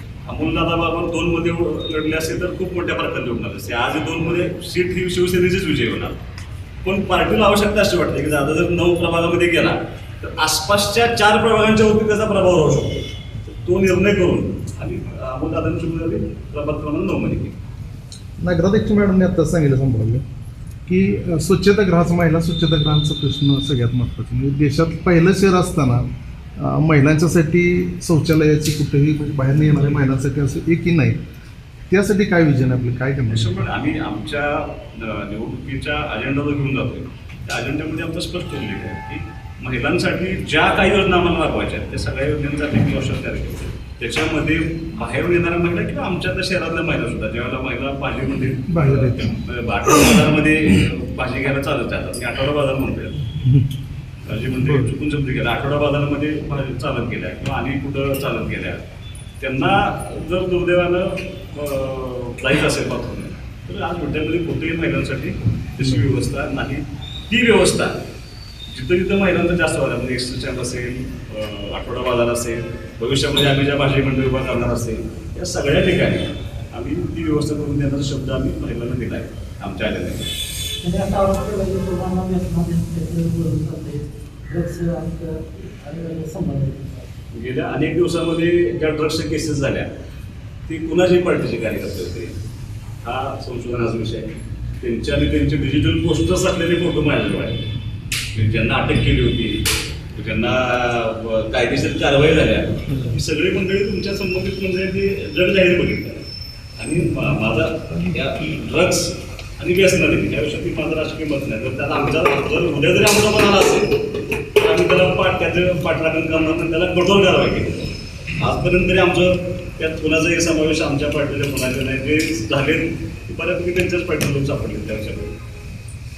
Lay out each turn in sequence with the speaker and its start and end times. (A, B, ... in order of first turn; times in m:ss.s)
0:00.2-0:06.2 A
0:06.8-0:17.5 A
0:18.4-0:20.2 B
0:20.9-0:26.0 B
0:26.6-0:31.2 B
0:31.9-0:33.5 B
0:33.3-0:53.4 A
0:48.7-0:49.3 B
0:54.2-0:58.8 A
0:59.4-1:08.0 A
1:08.7-1:20.3 A
1:20.8-1:24.0 C
1:24.6-1:27.0 C
1:27.3-1:29.9 A
1:30.7-1:32.3 A
1:33.0-1:37.6 A
1:38.3-1:46.2 A
1:46.8-1:54.0 A
1:54.6-2:05.3 A